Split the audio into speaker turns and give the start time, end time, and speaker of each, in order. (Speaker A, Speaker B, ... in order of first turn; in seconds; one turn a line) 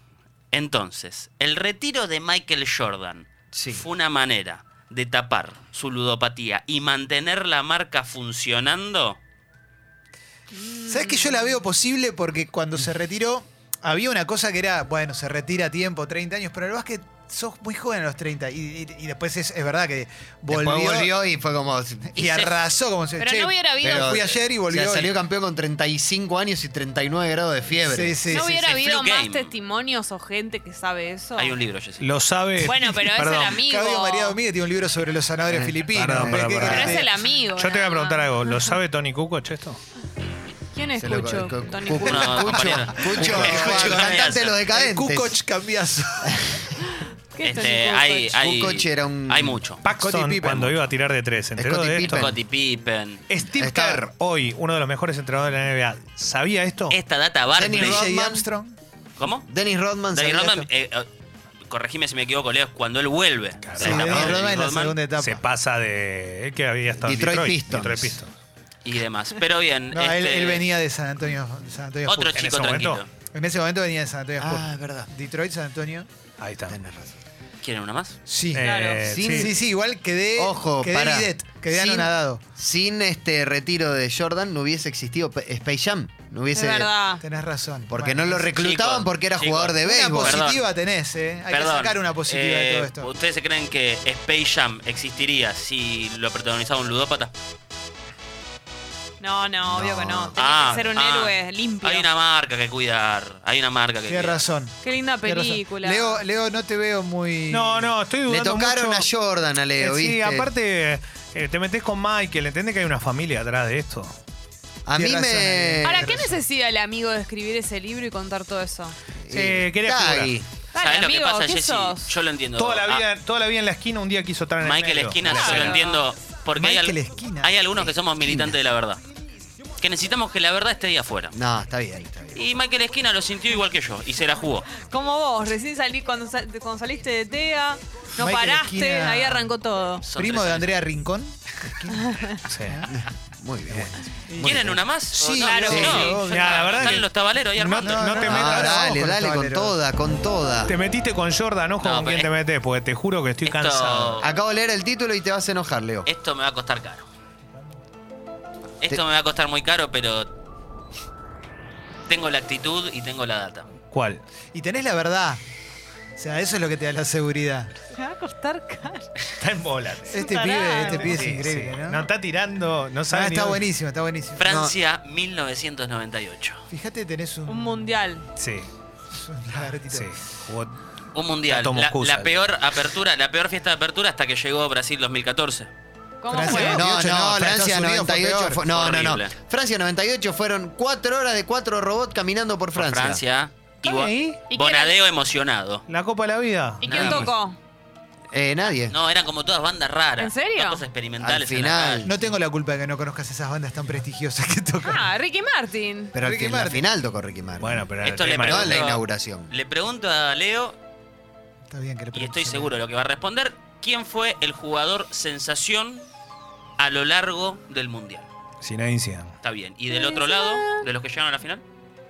Speaker A: 0.5-9.2
Speaker B: 3.5-3.9
Speaker C: 10.6-11.6
Speaker D: 10.8-21.2
Speaker B: 20.5-22.1
Speaker D: 22.1-25.1
Speaker A: 22.2-22.6
Speaker C: 23.2-24.2
Speaker B: 23.8-28.2
Speaker D: 27.9-28.5
Speaker C: 28.3-31.6
Speaker A: 28.3-29.5
Speaker A: 31.4-32.0
Speaker E: 32.0-33.3
Speaker C: 32.6-34.4
Speaker D: 32.6-37.1
Speaker B: 35.5-37.1
Speaker E: 36.0-36.9
Speaker C: 36.6-38.7
Speaker E: 37.5-39.8
Speaker C: 40.7-42.2
Speaker B: 41.0-45.4
Speaker A: 42.0-44.6
Speaker D: 42.1-46.7
Speaker E: 43.2-43.6
Speaker C: 47.3-48.5
Speaker A: 47.4-49.8
Speaker B: 48.4-49.6
Speaker E: 49.8-52.3
Speaker D: 49.9-50.9
Speaker B: 51.6-52.4
Speaker A: 52.1-53.2
Speaker E: 53.3-57.0
Speaker B: 53.6-54.1
Speaker A: 56.9-58.1
Speaker B: 57.5-58.5
Speaker D: 57.7-58.8
Speaker A: 59.2-59.5
Speaker B: 59.5-60.7
Speaker A: 60.1-61.1
Speaker A: 61.7-65.0
Speaker E: 63.7-64.5
Speaker D: 63.8-65.4
Speaker B: 63.9-64.4
Speaker E: 65.1-68.3
Speaker B: 67.0-68.2
Speaker A: 68.8-70.7
Speaker D: 69.9-72.5
Speaker A: 72.0-73.1
Speaker E: 72.3-73.0
Speaker D: 73.3-76.1
Speaker B: 74.4-75.1
Speaker E: 76.4-76.8
Speaker B: 76.7-77.2
Speaker A: 77.6-78.2
Speaker D: 78.3-82.4
Speaker E: 78.5-79.5
Speaker C: 78.6-79.1
Speaker B: 79.1-79.6
Speaker B: 80.4-86.9
Speaker C: 86.5-87.2
Speaker D: 87.2-88.5
Speaker B: 87.9-90.5
Speaker A: 88.6-90.7
Speaker D: 89.8-93.1
Speaker A: 91.5-97.3
Speaker C: 99.2-102.1
Speaker B: 99.7-100.4
Speaker A: 100.4-104.5
Speaker D: 104.1-108.0
Speaker C: 104.8-106.2
Speaker E: 107.5-109.1
Speaker B: 108.3-110.5
Speaker E: 109.8-114.2
Speaker B: 114.9-116.2
Speaker D: 115.0-116.4
Speaker C: 115.8-119.0
Speaker B: 119.2-120.5
Speaker E: 119.3-120.4
Speaker C: 120.7-122.2
Speaker A: 120.8-123.1
Speaker E: 122.6-125.7
Speaker A: 124.6-129.0
Speaker C: 125.3-126.0
Speaker D: 126.6-127.5
Speaker B: 127.8-128.5
Speaker A: 129.8-131.4
Speaker B: 131.3-132.4
Speaker A: 132.3-134.7
Speaker C: 134.8-140.1
Speaker D: 138.2-139.5
Speaker A: 140.0-140.8
Speaker D: 140.2-142.9
Speaker C: 142.0-142.4
Speaker E: 142.5-142.8
Speaker B: 142.9-144.0
Speaker D: 144.3-147.0
Speaker A: 144.4-148.3
Speaker C: 145.4-146.2
Speaker B: 145.7-146.1
Speaker E: 146.2-148.7
Speaker D: 147.8-149.8
Speaker B: 148.2-150.7
Speaker E: 150.7-154.2
Speaker A: 151.8-152.3
Speaker A: 153.4-154.3
Speaker B: 154.2-156.1
Speaker A: 156.1-157.1
Speaker A: 158.8-160.3
Speaker A: 162.1-163.7
Speaker E: 163.9-164.2
Speaker D: 164.5-165.4
Speaker D: 166.2-167.8
Speaker C: 167.9-169.1
Speaker E: 169.4-173.7
Speaker D: 170.1-172.1
Speaker C: 170.2-171.2
Speaker D: 173.1-174.4
Speaker A: 174.4-176.7
Speaker B: 174.4-174.8
Speaker D: 176.7-177.8
Speaker C: 177.4-178.3
Speaker E: 178.4-178.7
Speaker D: 179.1-180.1
Speaker E: 179.9-180.8
Speaker A: 181.1-185.7
Speaker E: 181.5-182.4
Speaker C: 186.2-186.8
Speaker D: 186.3-188.6
Speaker B: 186.5-193.2
Speaker A: 188.7-189.3
Speaker A: 192.7-195.8
Speaker E: 193.9-194.4
Speaker C: 194.5-195.0
Speaker E: 195.9-197.3
Speaker C: 196.8-197.6
Speaker A: 196.8-197.3
Speaker B: 198.3-198.9
Speaker A: 198.8-202.1
Speaker C: 200.2-200.8
Speaker B: 201.2-202.1
Speaker D: 202.1-205.1
Speaker C: 204.8-206.2
Speaker B: 206.1-207.8
Speaker D: 206.2-206.9
Speaker E: 207.6-208.8
Speaker A: 208.0-210.8
Speaker B: 208.4-209.5
Speaker D: 211.7-212.8
Speaker A: 212.1-216.1
Speaker A: 216.8-218.3
Speaker E: 218.6-219.3
Speaker A: 219.4-221.6
Speaker C: 219.9-220.9